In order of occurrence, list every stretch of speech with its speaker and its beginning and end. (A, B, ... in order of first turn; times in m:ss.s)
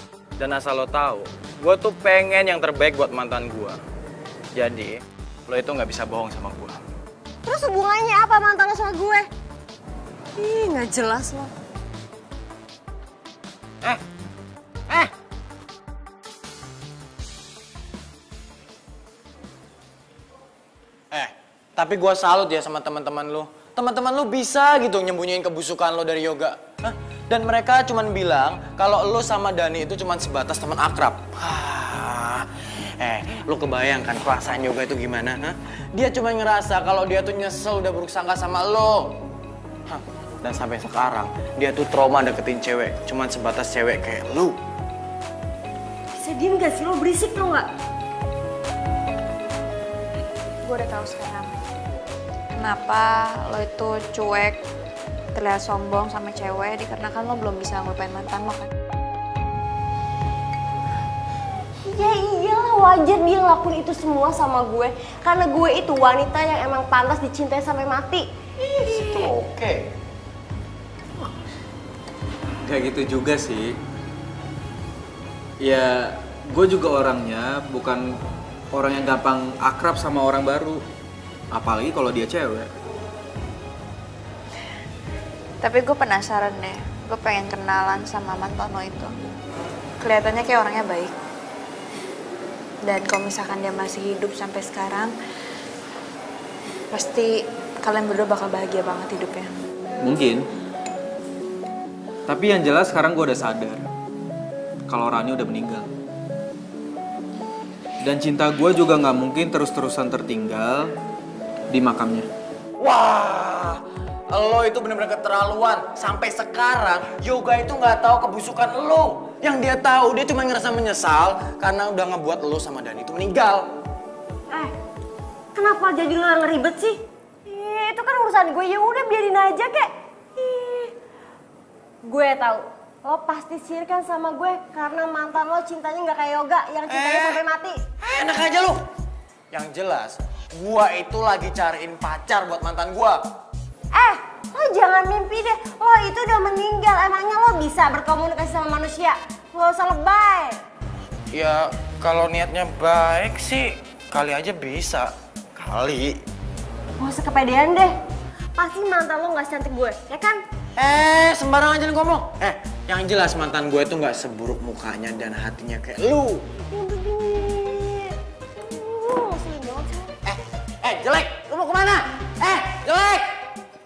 0:00.4-0:03.8 A
0:04.5-0:06.8 A
0:07.4-0:09.2 B
0:10.4-0:11.5 B
0:21.1-0:32.5 A
0:33.0-0:39.1 A
0:39.9-0:44.6 A
0:46.2-0:47.7 B
0:50.6-0:51.5 C
0:52.5-0:54.6 C
0:55.3-0:58.7 C
1:01.9-1:08.2 B
1:09.0-1:09.8 A
1:12.6-1:13.7 D
1:15.6-1:18.0 D
1:18.7-1:20.8 D
1:21.5-1:22.7 D
1:25.6-1:29.1 C
1:30.0-1:31.1 C
1:32.8-1:35.1 C
1:36.9-1:37.3 C
1:37.8-1:39.5 C
1:40.0-1:40.4 D
1:42.3-1:43.8 D
1:44.9-1:45.8 D
1:48.0-1:50.9 D
1:51.7-1:52.3 D
1:52.8-1:53.8 A
1:54.3-2:03.7 A
2:05.5-2:10.9 B
2:12.0-2:17.8 B
2:16.9-2:17.4 A
2:18.0-2:18.8 A
2:19.5-2:23.2 A
2:23.9-2:30.6 B
2:31.3-2:36.2 A
2:37.0-2:37.9 B
2:38.6-2:40.4 B
2:40.8-2:46.4 A
2:46.7-2:50.1 B
2:50.3-2:53.3 A